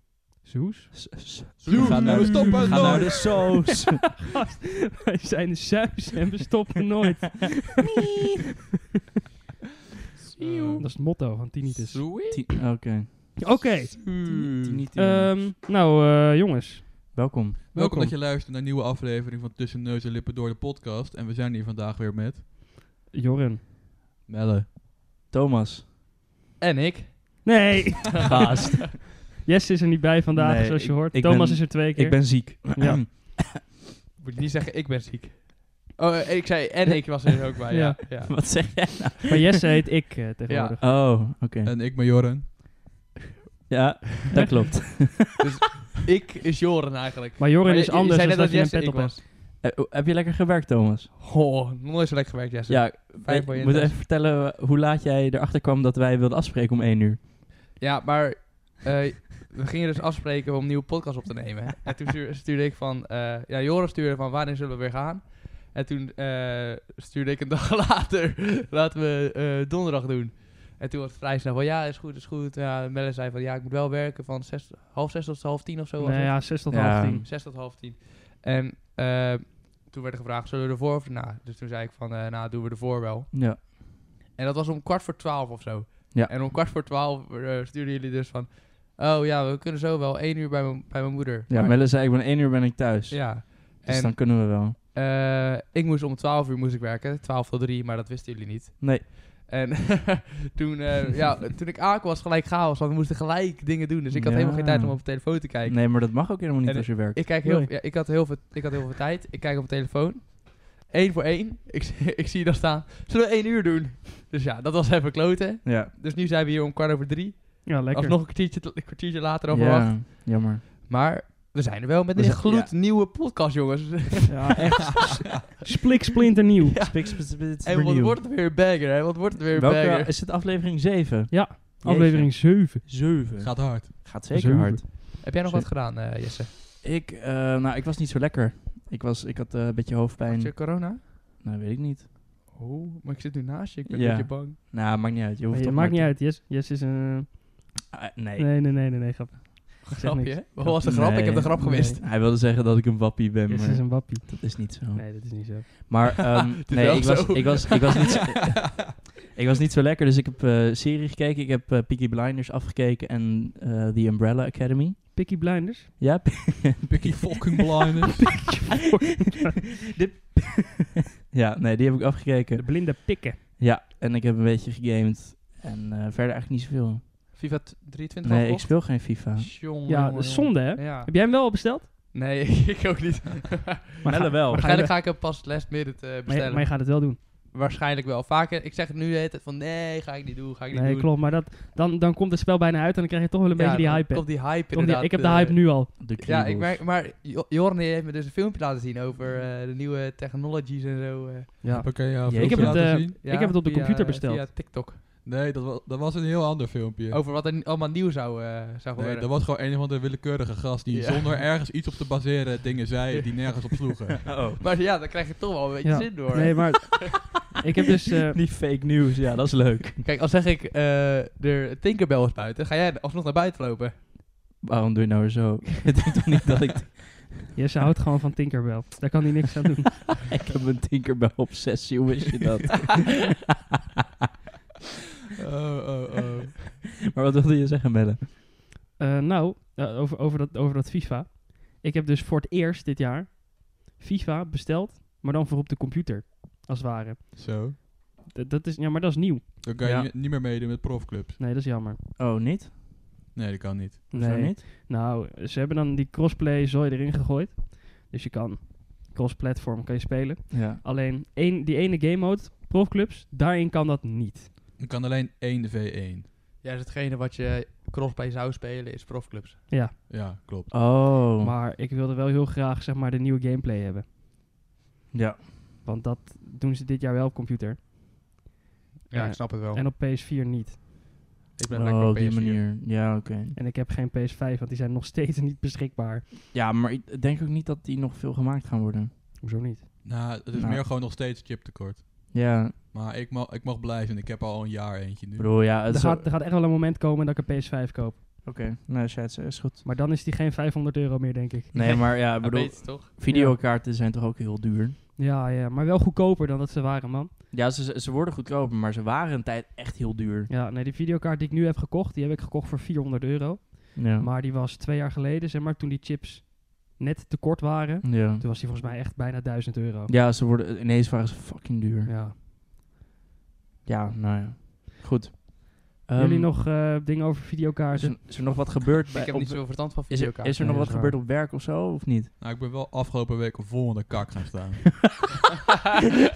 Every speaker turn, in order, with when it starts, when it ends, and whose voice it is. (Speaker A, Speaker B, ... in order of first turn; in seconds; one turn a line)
Speaker A: 0.4-3.1
Speaker B: 0.9-4.0
Speaker C: 1.6-3.3
Speaker A: 4.3-7.9
Speaker D: 10.3-12.4
Speaker C: 10.4-10.8
Speaker A: 10.8-12.2
Speaker B: 12.3-13.6
Speaker A: 13.4-14.1
Speaker D: 14.0-14.8
Speaker B: 14.3-15.3
Speaker A: 14.9-17.1
Speaker B: 17.1-18.1
Speaker C: 17.7-22.4
Speaker A: 23.1-23.6
Speaker C: 24.3-24.7
Speaker B: 25.3-25.8
Speaker D: 26.6-27.8
Speaker A: 27.4-28.4
Speaker B: 28.2-28.8
Speaker A: 29.4-33.0
Speaker B: 30.3-33.7
Speaker D: 34.2-38.5
Speaker A: 37.7-38.0
Speaker B: 38.3-39.4
Speaker A: 39.3-40.8
Speaker D: 40.5-40.8
Speaker B: 40.8-41.7
Speaker C: 41.6-42.5
Speaker B: 43.7-45.4
Speaker A: 44.3-44.7
Speaker D: 45.4-49.2
Speaker A: 47.4-49.1
Speaker B: 49.6-51.1
Speaker D: 51.2-54.0
Speaker B: 52.7-57.2
Speaker D: 57.8-83.3
Speaker A: 76.0-77.2
Speaker B: 76.7-77.3
Speaker B: 83.3-83.6
Speaker D: 84.3-91.8
Speaker B: 91.5-94.8
Speaker D: 93.1-125.0
Speaker B: 98.8-99.0
Speaker B: 104.1-107.2
Speaker A: 107.4-107.7
Speaker B: 115.6-115.9
Speaker A: 117.6-118.2
Speaker B: 119.5-120.6
Speaker B: 122.2-122.7
Speaker A: 124.3-126.8
Speaker D: 126.6-130.1
Speaker B: 126.8-128.2
Speaker B: 129.5-136.2
Speaker A: 131.3-132.8
Speaker C: 133.4-134.0
Speaker A: 134.3-134.8
Speaker D: 135.2-136.5
Speaker B: 136.8-142.0
Speaker D: 140.3-141.0
Speaker D: 142.5-144.6
Speaker B: 143.9-146.1
Speaker A: 145.5-147.8
Speaker B: 147.9-148.5
Speaker A: 148.4-150.7
Speaker D: 150.0-152.0
Speaker B: 150.6-165.2
Speaker A: 153.5-155.7
Speaker D: 156.4-158.0
Speaker A: 165.1-165.9
Speaker B: 166.0-167.4
Speaker C: 166.9-168.3
Speaker A: 168.3-169.6
Speaker B: 169.9-177.0
Speaker A: 172.6-173.4
Speaker D: 177.3-181.1
Speaker B: 178.2-179.5
Speaker A: 179.9-181.9
Speaker D: 182.1-191.1
Speaker B: 184.0-184.6
Speaker A: 184.5-184.9
Speaker A: 186.3-187.2
Speaker A: 190.7-195.9
Speaker D: 193.5-202.0
Speaker B: 196.0-196.8
Speaker A: 201.6-204.5
Speaker C: 201.7-203.1
Speaker B: 202.2-202.8
Speaker D: 202.8-205.0
Speaker C: 205.2-207.2
Speaker D: 207.1-209.3
Speaker C: 209.0-214.3
Speaker D: 210.9-211.5
Speaker D: 213.1-213.8
Speaker B: 214.2-214.6
Speaker D: 214.6-216.9
Speaker A: 215.8-218.4
Speaker B: 218.3-220.0
Speaker D: 220.0-223.9
Speaker B: 224.6-227.5
Speaker A: 227.5-230.2
Speaker B: 230.3-233.0
Speaker C: 235.4-236.6
Speaker B: 237.1-238.2
Speaker A: 239.0-249.5
Speaker C: 247.3-247.8
Speaker C: 249.6-251.4
Speaker B: 249.8-250.1
Speaker A: 251.4-252.0
Speaker B: 252.2-252.7
Speaker C: 253.3-254.1
Speaker A: 254.1-264.5
Speaker B: 254.1-254.6
Speaker B: 260.5-260.8
Speaker C: 264.8-266.2
Speaker D: 266.6-269.6
Speaker C: 270.1-270.7
Speaker B: 270.7-271.5
Speaker A: 271.4-274.1
Speaker B: 275.1-275.4
Speaker A: 275.8-277.8
Speaker D: 279.1-279.8
Speaker A: 279.1-281.0
Speaker D: 281.6-282.6
Speaker B: 281.7-283.6
Speaker A: 283.5-286.3
Speaker B: 286.5-289.1
Speaker A: 289.4-289.8
Speaker C: 290.0-295.6
Speaker B: 290.5-290.8
Speaker B: 292.3-292.7
Speaker B: 295.4-296.3
Speaker A: 295.9-298.2
Speaker B: 298.4-299.8
Speaker A: 299.8-301.7
Speaker B: 301.7-305.0
Speaker D: 301.7-303.1
Speaker A: 303.3-303.6
Speaker A: 305.2-307.3
Speaker B: 307.5-310.5
Speaker A: 310.5-320.1
Speaker B: 313.9-314.3
Speaker B: 318.0-318.4
Speaker B: 320.1-322.1
Speaker A: 322.1-322.3
Speaker B: 323.9-326.5
Speaker A: 326.1-328.2
Speaker B: 328.0-332.3
Speaker D: 329.1-330.8
Speaker A: 330.6-331.2
Speaker C: 332.4-335.3